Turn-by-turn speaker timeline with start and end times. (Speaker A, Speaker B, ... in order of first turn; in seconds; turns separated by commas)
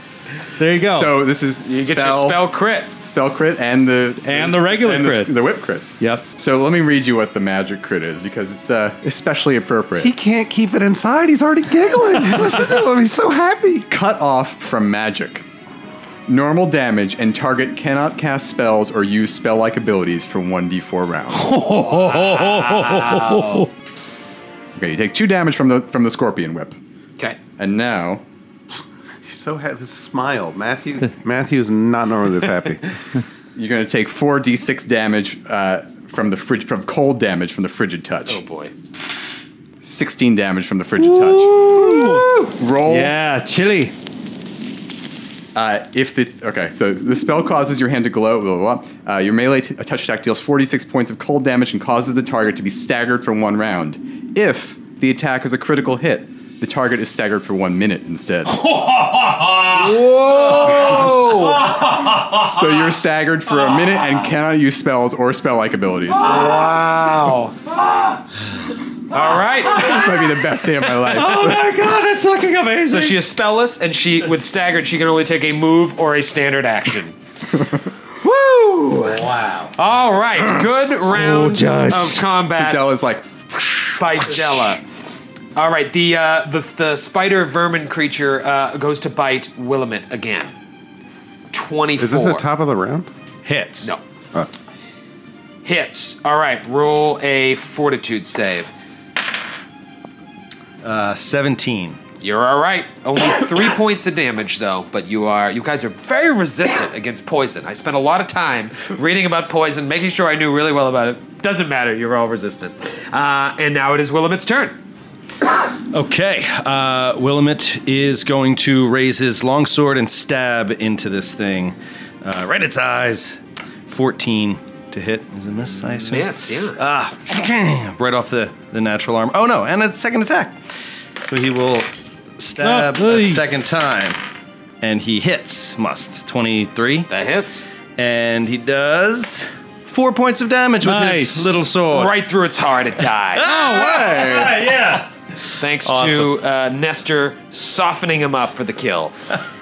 Speaker A: 0.6-1.1, Speaker B: 0.9-2.4, Speaker C: 1.6-2.9, Speaker B: 3.0-10.1, Speaker A: 4.2-5.4, Speaker A: 6.0-6.2, Speaker D: 10.0-13.9, Speaker B: 13.9-15.4, Speaker B: 16.3-21.5, Speaker A: 21.3-23.7, Speaker C: 21.7-23.7, Speaker B: 24.8-26.8, Speaker B: 27.5-28.2, Speaker D: 28.7-32.8, Speaker B: 33.5-38.4, Speaker C: 38.3-38.7, Speaker B: 39.8-43.1, Speaker A: 41.0-42.3, Speaker A: 42.8-43.9, Speaker B: 45.5-58.6, Speaker C: 59.7-61.8, Speaker B: 62.3-66.3, Speaker C: 66.2-67.6, Speaker C: 69.1-70.0, Speaker B: 69.7-71.7, Speaker A: 71.0-73.2, Speaker C: 72.9-77.2, Speaker C: 78.2-82.9, Speaker A: 81.1-82.3, Speaker B: 82.5-84.7, Speaker C: 84.0-84.8, Speaker C: 85.5-90.5, Speaker C: 91.5-92.5, Speaker D: 92.0-93.1, Speaker E: 93.4-93.9, Speaker C: 95.6-98.7, Speaker E: 100.8-102.0, Speaker C: 102.2-114.7, Speaker E: 115.9-130.6, Speaker C: 126.1-126.8, Speaker E: 131.2-134.2, Speaker A: 132.6-133.4, Speaker E: 134.8-137.1, Speaker C: 137.1-137.7, Speaker E: 138.0-142.2, Speaker A: 140.8-141.5, Speaker C: 141.9-143.6, Speaker E: 143.4-146.3, Speaker B: 143.5-144.7, Speaker C: 145.6-149.2